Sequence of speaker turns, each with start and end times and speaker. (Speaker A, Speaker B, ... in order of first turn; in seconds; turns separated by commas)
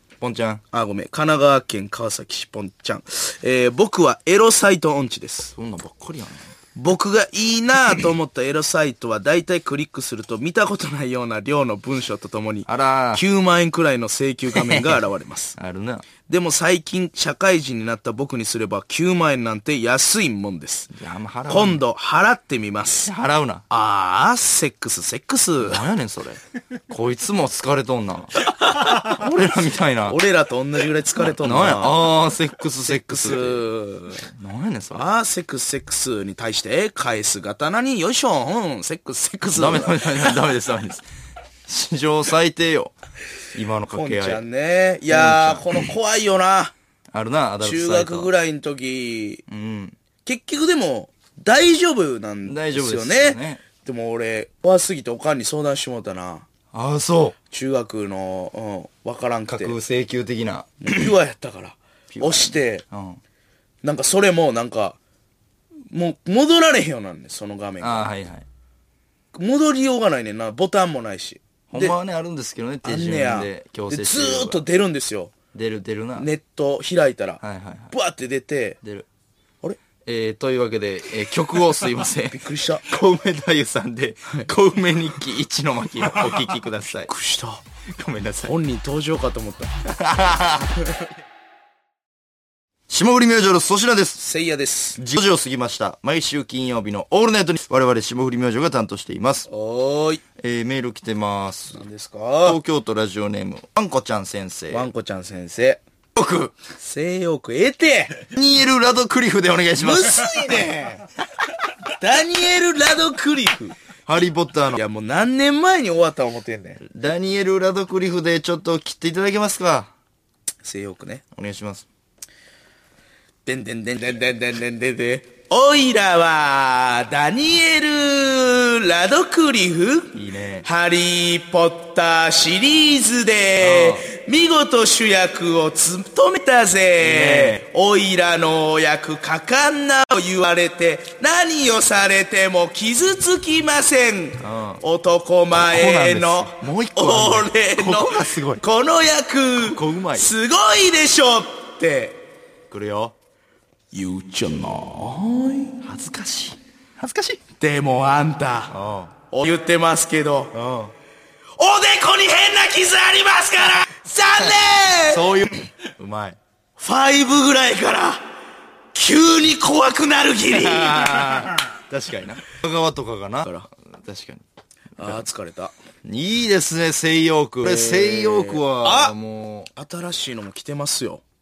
Speaker A: 0.2-0.6, Speaker B: 0.7-5.5, Speaker A: 5.5-6.5, Speaker B: 6.7-15.6, Speaker A: 12.7-13.2, Speaker A: 14.6-15.0, Speaker A: 15.6-16.1, Speaker B: 16.3-20.9, Speaker A: 20.9-21.8, Speaker B: 21.5-23.1, Speaker A: 23.0-23.6, Speaker B: 23.7-25.8, Speaker A: 25.6-30.2, Speaker B: 28.6-29.2, Speaker B: 30.1-32.1, Speaker A: 31.3-33.6, Speaker B: 32.8-34.2, Speaker A: 34.3-35.0, Speaker B: 34.9-40.4, Speaker A: 39.5-41.0, Speaker A: 41.7-42.9, Speaker A: 43.5-44.4, Speaker B: 43.9-46.7, Speaker A: 45.1-45.9, Speaker A: 47.1-48.3, Speaker B: 47.6-49.4, Speaker A: 49.5-50.0, Speaker B: 50.2-56.5, Speaker A: 52.5-53.6, Speaker A: 56.7-57.4, Speaker B: 57.5-59.8, Speaker A: 59.5-61.0, Speaker B: 60.8-62.8, Speaker A: 62.1-63.2, Speaker B: 63.8-65.0, Speaker B: 65.9-68.1, Speaker A: 67.8-68.4, Speaker B: 69.3-72.0, Speaker A: 71.7-74.6, Speaker B: 72.8-75.3, Speaker A: 75.5-76.3, Speaker B: 76.2-78.8, Speaker A: 77.4-77.9, Speaker A: 78.8-79.1, Speaker A: 80.0-87.1, Speaker B: 82.3-82.8, Speaker B: 87.1-87.6, Speaker A: 87.9-88.5, Speaker B: 88.4-89.7, Speaker A: 89.8-90.8, Speaker A: 92.9-94.2, Speaker B: 94.2-95.0, Speaker A: 95.0-99.5, Speaker B: 99.5-100.2, Speaker A: 100.4-101.8, Speaker B: 101.7-102.6, Speaker A: 102.4-104.9, Speaker B: 104.7-105.8, Speaker A: 106.2-106.5, Speaker B: 106.8-108.2, Speaker A: 108.3-110.3, Speaker B: 109.8-111.0, Speaker B: 112.0-113.8, Speaker A: 114.1-114.8, Speaker B: 114.7-116.8, Speaker A: 116.8-119.9, Speaker B: 120.6-121.2, Speaker A: 121.3-121.8, Speaker B: 123.5-152.2, Speaker A: 130.1-130.7, Speaker A: 133.6-134.1, Speaker A: 137.0-137.6, Speaker A: 144.4-144.8, Speaker A: 145.5-148.6, Speaker A: 149.6-150.3, Speaker A: 152.7-153.1, Speaker B: 153.9-155.8, Speaker A: 155.8-157.4, Speaker B: 157.6-158.7, Speaker A: 158.7-159.1, Speaker B: 159.3-160.5, Speaker A: 160.5-160.9, Speaker B: 161.6-165.3, Speaker A: 165.1-166.4, Speaker B: 166.8-168.3, Speaker B: 168.9-171.5, Speaker A: 170.5-174.4, Speaker B: 175.0-175.7, Speaker A: 176.0-179.7, Speaker B: 177.6-179.2, Speaker B: 179.7-181.2